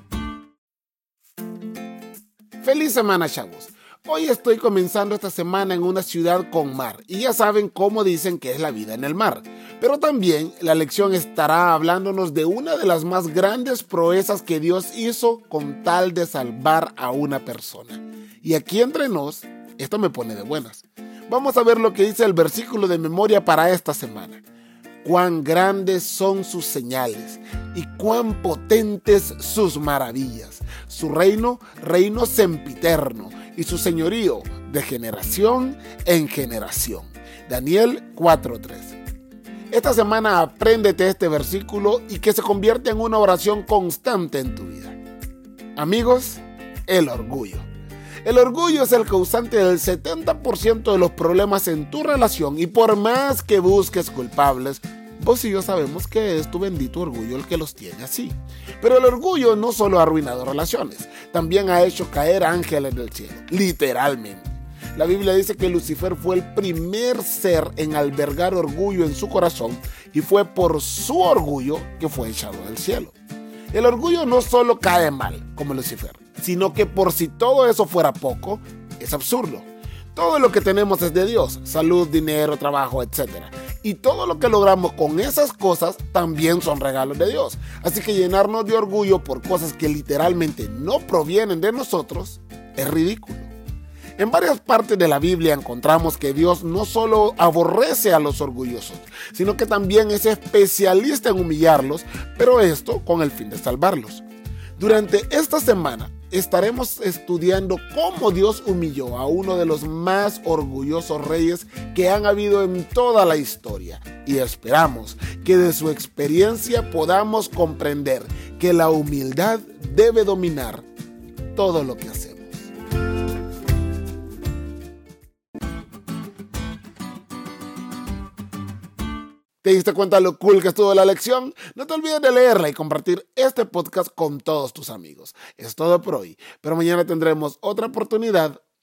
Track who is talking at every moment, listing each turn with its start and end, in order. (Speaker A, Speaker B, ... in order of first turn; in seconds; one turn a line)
Speaker A: 2.6-24.4
Speaker A: 25.0-39.0
Speaker A: 39.7-45.0
Speaker A: 45.8-47.6
Speaker A: 48.2-73.1
Speaker A: 73.7-93.5
Speaker A: 94.2-104.2
Speaker A: 104.8-120.8
Speaker A: 121.5-122.7
Speaker A: 129.6-138.6